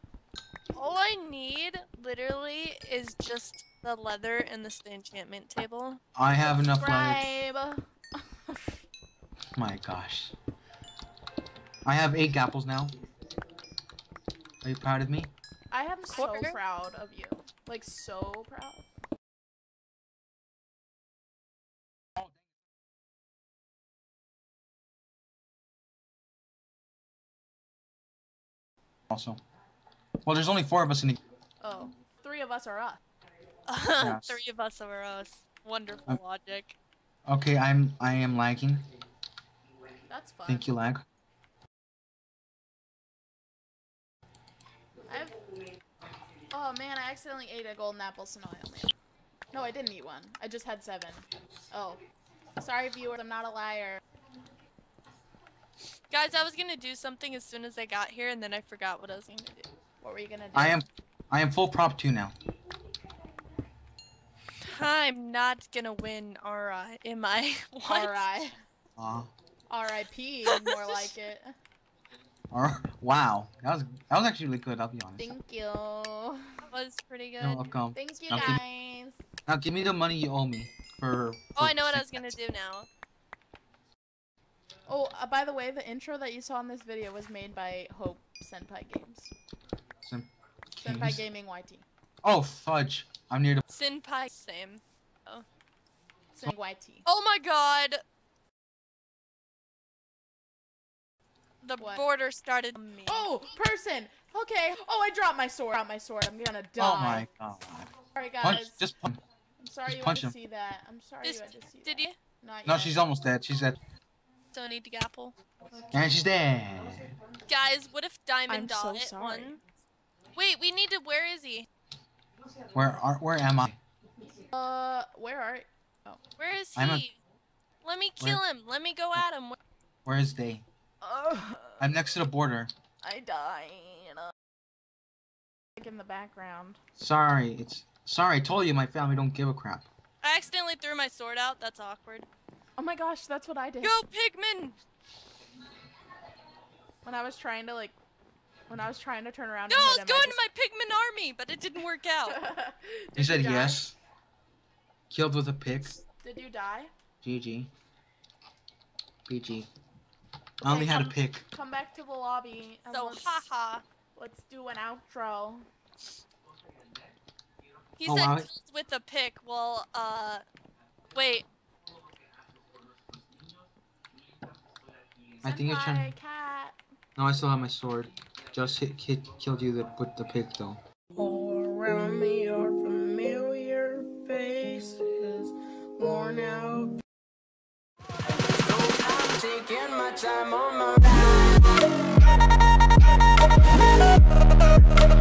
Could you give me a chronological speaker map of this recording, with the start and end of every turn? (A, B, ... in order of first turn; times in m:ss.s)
0:00.7-0:06.0 A
0:06.2-0:07.2 B
0:06.4-0:08.8 C
0:09.6-0:10.3 B
0:11.8-0:12.9 B
0:14.6-0:15.3 B
0:15.7-0:18.9 C
0:16.1-0:16.6 A
0:29.1-0:29.4 B
0:30.2-0:31.2 B
0:31.6-0:33.0 C
0:33.7-0:36.8 A
0:34.0-0:34.4 B
0:37.2-0:38.8 B
0:40.1-0:40.7 C
0:40.5-0:41.0 B
0:45.1-0:45.4 C
0:46.5-0:48.9 C
0:49.5-0:52.0 C
0:52.6-0:54.0 C
0:56.1-0:59.7 A
1:00.0-1:00.8 C
1:00.5-1:02.3 B
1:04.6-1:08.5 A
1:07.8-1:08.6 C
1:09.0-1:09.3 B
1:09.7-1:11.5 C
1:10.4-1:11.1 A
1:12.5-1:15.3 B
1:15.2-1:16.6 C
1:16.6-1:17.7 A
1:17.4-1:18.6 B
1:17.9-1:19.2 C
1:19.4-1:22.3 B
1:21.6-1:22.9 A
1:24.9-1:29.3 C
1:30.0-1:31.2 B
1:30.8-1:31.8 C
1:32.2-1:33.6 B
1:33.7-1:35.4 A
1:36.3-1:37.0 C
1:37.0-1:38.0 A
1:41.6-1:43.3 A
1:41.8-1:42.0 C
1:43.0-1:47.3 C
1:46.8-1:49.2 B
1:48.1-1:48.8 C
1:49.6-1:53.0 C
1:49.8-1:50.3 B
1:51.2-1:52.2 A
1:52.6-1:53.8 B
1:54.5-1:55.3 A
1:55.9-1:57.1 B
1:57.4-1:59.6 A
1:58.5-1:59.6 C
2:00.3-2:01.7 A
2:02.7-2:03.8 B
2:04.4-2:06.2 C
2:06.4-2:07.2 A
2:06.8-2:07.0 B
2:07.8-2:09.6 A
2:10.0-2:10.6 B
2:11.0-2:11.9 C
2:11.8-2:12.7 B
2:13.0-2:14.3 C
2:15.8-2:16.8 C
2:17.0-2:19.8 B
2:20.2-2:22.3 A
2:22.8-2:24.0 C
2:23.8-2:24.8 A
2:27.0-2:28.0 C
2:28.7-2:30.4 C
2:29.7-2:32.4 A
2:32.2-2:33.8 C
2:33.2-2:33.9 B
2:35.1-2:36.0 B
2:36.2-2:36.9 C
2:37.2-2:37.7 B
2:39.3-2:39.7 B
2:40.6-2:41.4 B
2:40.6-2:43.4 C
2:42.9-2:43.8 A
2:44.1-2:45.7 C
2:48.0-2:50.4 A
2:48.0-2:48.5 B
2:51.1-2:51.4 A
2:55.4-2:56.2 B
2:55.4-2:56.8 C
2:57.2-3:00.8 B
3:01.2-3:06.9 C
3:08.5-3:11.6 D